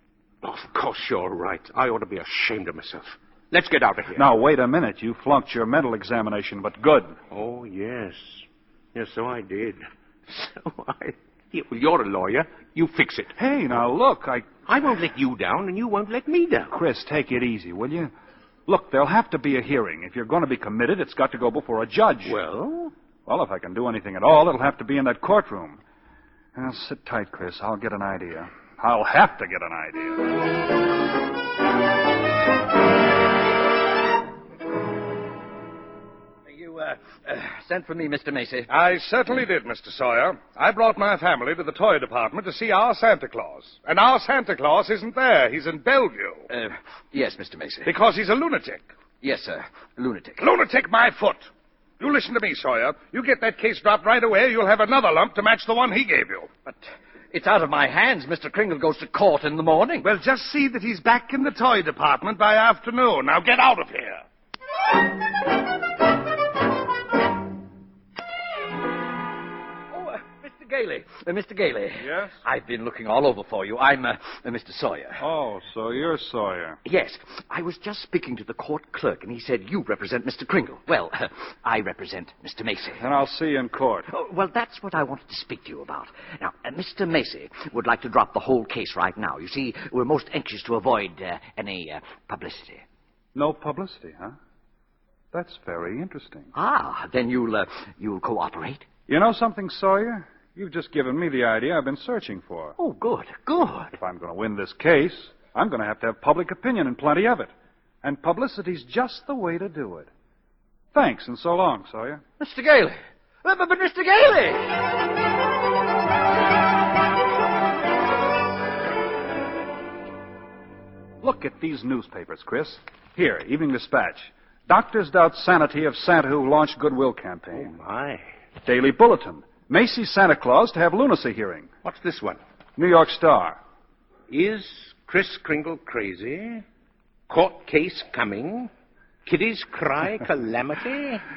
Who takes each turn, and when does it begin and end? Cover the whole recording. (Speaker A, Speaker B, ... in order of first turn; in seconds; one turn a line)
Speaker A: 0.4-4.2
Speaker B: 4.2-7.2
Speaker A: 7.3-13.3
Speaker B: 13.3-14.5
Speaker A: 14.7-16.7
Speaker B: 16.7-18.1
Speaker B: 18.7-22.4
Speaker A: 22.2-22.9
Speaker B: 23.2-25.8
Speaker B: 26.5-30.2
Speaker C: 36.5-38.7
Speaker D: 38.7-46.5
Speaker C: 46.5-47.9
Speaker D: 47.8-48.9
Speaker C: 49.2-50.4
Speaker D: 50.4-56.5
Speaker C: 56.6-60.0
Speaker D: 60.0-64.2
Speaker C: 69.9-75.2
Speaker B: 72.0-72.3
Speaker B: 75.2-76.8
Speaker C: 76.8-83.0
Speaker B: 83.0-84.0
Speaker C: 84.1-92.8
Speaker B: 93.3-94.3
Speaker B: 95.3-96.5
Speaker C: 96.5-98.9
Speaker B: 99.1-102.8
Speaker C: 102.8-104.0
Speaker B: 104.0-107.5
Speaker B: 108.0-110.1
Speaker B: 110.9-112.2
Speaker C: 112.4-114.7
Speaker B: 121.2-127.8
Speaker A: 127.5-128.3
Speaker B: 128.6-131.7
Speaker A: 131.8-132.4
Speaker B: 132.8-133.6
Speaker A: 134.3-136.6
Speaker A: 137.3-138.7
Speaker A: 139.2-141.2